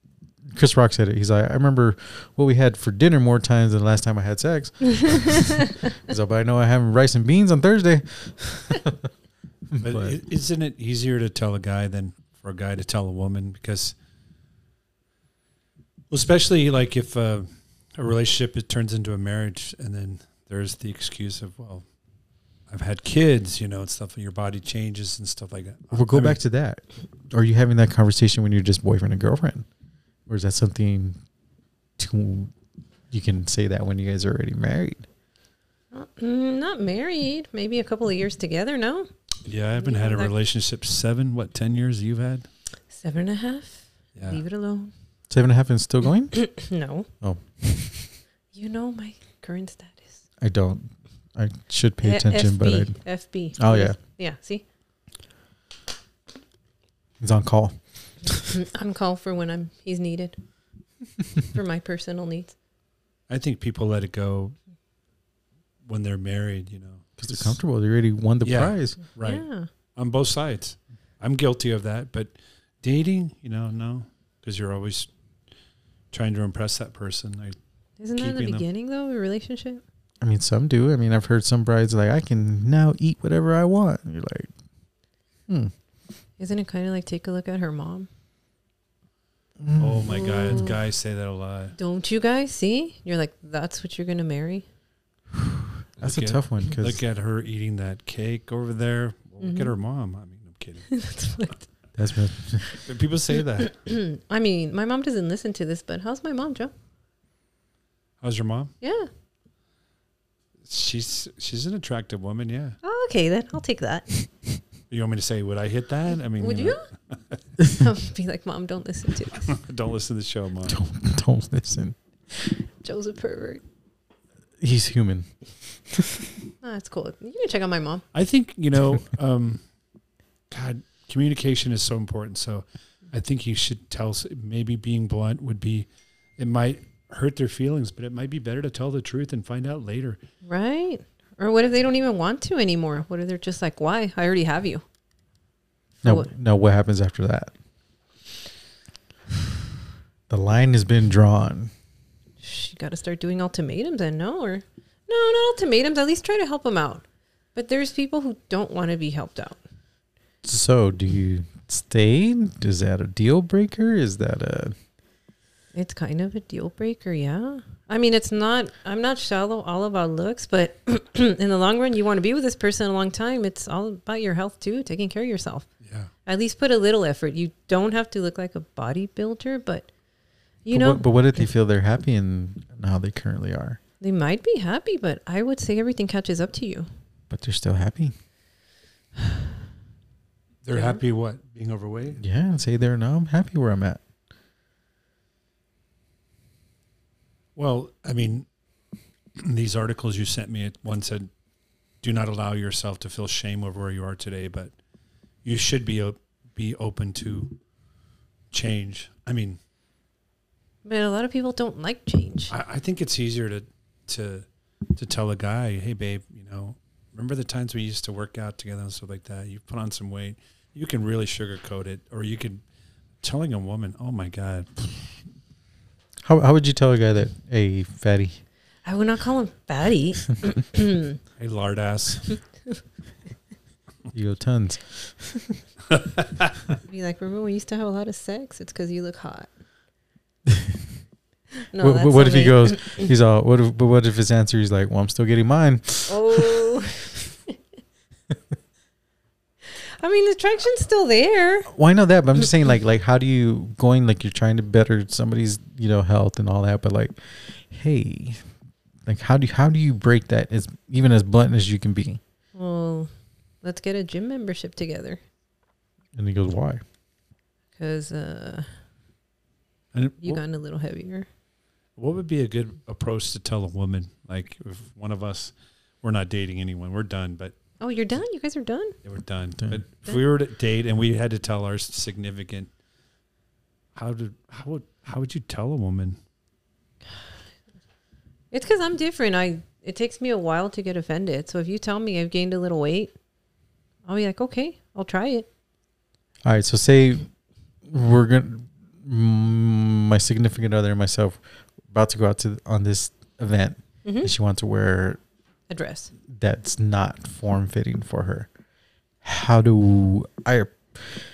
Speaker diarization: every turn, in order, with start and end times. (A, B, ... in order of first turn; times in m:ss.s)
0:00.4-0:09.1 A
0:09.7-0:10.2 A
0:09.8-0:14.0 B
0:16.1-0:21.8 B
0:22.7-0:26.4 B
0:25.9-0:29.7 A
0:30.3-0:31.2 A
0:32.0-0:32.5 A
0:33.1-0:35.1 A
0:35.9-0:39.1 C
0:39.5-0:42.5 B
0:39.8-0:40.3 C
0:42.9-0:44.9 C
0:44.2-0:44.4 B
0:45.3-0:46.4 A
0:46.3-0:47.1 C
0:47.2-0:48.1 A
0:48.5-0:50.2 C
0:50.4-0:53.0 A
0:52.0-0:54.6 C
0:53.5-0:54.0 A
0:57.2-0:57.8 A
0:58.3-1:00.4 C
1:01.5-1:02.6 C
1:03.3-1:04.6 B
1:05.8-1:07.6 B
1:07.2-1:09.0 A
1:08.4-1:15.1 B
1:09.2-1:09.7 C
1:16.1-1:17.6 B
1:18.0-1:19.8 C
1:18.2-1:18.6 B
1:20.2-1:24.5 A
1:26.4-1:28.1 C
1:29.6-1:30.6 A
1:29.8-1:31.8 B
1:30.1-1:30.8 C
1:31.8-1:34.6 C
1:35.3-1:37.0 A
1:36.0-1:40.9 B
1:39.4-1:39.7 C
1:40.9-1:41.6 C
1:42.0-1:42.8 A
1:42.7-1:43.8 B
1:43.6-1:46.7 C
1:48.2-1:48.7 B
1:48.8-1:49.1 C
1:50.6-1:52.8 B
1:52.8-1:54.1 C
1:54.9-1:57.4 B
1:56.4-1:56.8 C
1:57.7-1:59.5 C
1:59.5-2:00.8 B
2:00.7-2:02.5 A
2:02.8-2:03.6 C
2:04.6-2:06.3 A
2:06.6-2:08.0 C
2:08.1-2:09.6 B
2:10.5-2:20.2 B
2:20.4-2:24.8 C
2:26.0-2:27.5 A
2:26.0-2:26.3 C
2:30.3-2:31.7 A
2:32.4-2:37.0 C
2:37.6-2:39.6 C
2:40.4-2:44.8 A
2:45.7-2:55.7 C
2:55.8-2:56.1 B
2:56.3-2:59.9 C
3:00.6-3:01.5 C
3:00.7-3:03.8 A
3:04.0-3:06.9 C
3:07.3-3:08.1 A
3:10.6-3:12.2 B
3:10.7-3:11.0 C
3:12.2-3:14.0 A
3:17.6-3:18.5 B
3:19.4-3:21.3 B
3:22.0-3:24.7 B
3:25.4-3:27.6 B
3:28.5-3:29.6 B
3:30.8-3:32.5 C
3:32.5-3:42.6 B
3:43.2-3:45.2 B
3:46.2-3:48.4 A
3:48.8-3:51.2 C
3:51.4-3:52.4 B
3:54.1-3:55.6 A
3:55.9-3:56.6 B
3:56.8-3:59.5 C
4:00.5-4:00.9 A
4:01.7-4:03.1 C
4:01.8-4:06.8 A
4:06.1-4:07.2 C
4:09.7-4:11.7 C
4:11.7-4:18.4 A
4:19.1-4:22.2 A
4:22.6-4:23.1 C
4:23.6-4:25.2 C
4:26.1-4:26.8 A
4:27.8-4:28.7 C
4:29.9-4:30.4 B
4:30.2-4:31.3 C
4:32.0-4:37.6 B
4:37.8-4:39.0 C
4:39.0-4:42.7 B
4:44.0-4:46.2 B
4:48.5-4:53.1 C
4:54.1-4:55.5 C
4:56.4-4:57.3 A
4:57.8-5:05.2 A
5:04.0-5:04.3 C
5:05.7-5:06.1 C
5:06.3-5:08.5 A
5:09.2-5:11.2 A